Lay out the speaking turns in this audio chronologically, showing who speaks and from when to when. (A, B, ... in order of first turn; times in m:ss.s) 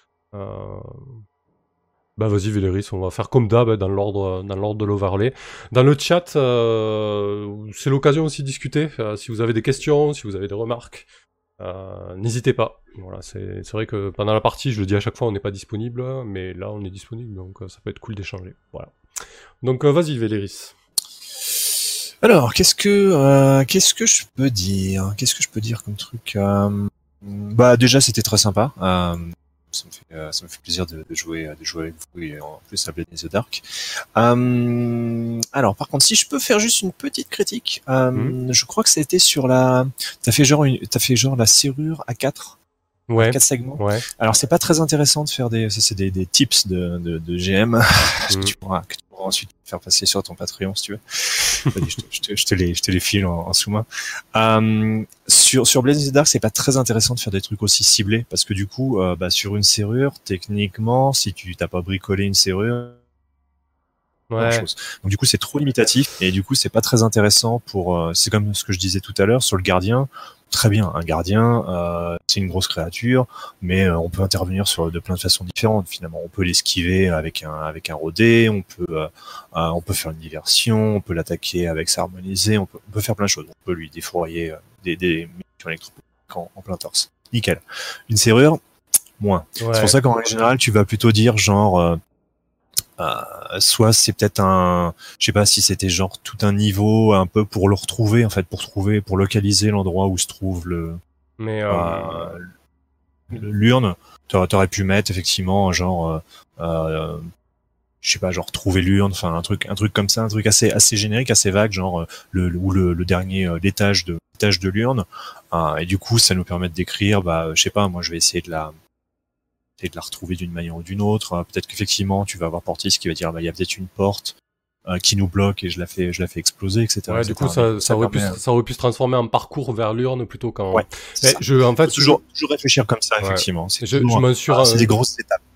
0:00.3-0:01.2 A
0:02.2-0:11.1 A
0:11.6-0:18.9 A
0:19.6-0:20.8 A
0:21.6-0:33.6 B
0:34.1-0:42.6 B
0:43.1-0:44.0 A
0:43.2-1:03.0 B
0:48.3-0:48.5 A
1:04.3-1:04.7 A
1:04.4-1:28.6 B
1:29.2-1:32.0 B
1:29.6-1:30.0 A
1:33.0-1:41.0 B
1:41.4-1:42.4 A
1:41.7-1:42.4 B
1:43.3-1:47.2 B
1:48.0-1:58.7 B
1:59.8-2:04.4 B
2:04.9-2:08.4 B
2:07.1-2:12.2 A
2:10.7-2:15.4 B
2:13.2-2:14.9 A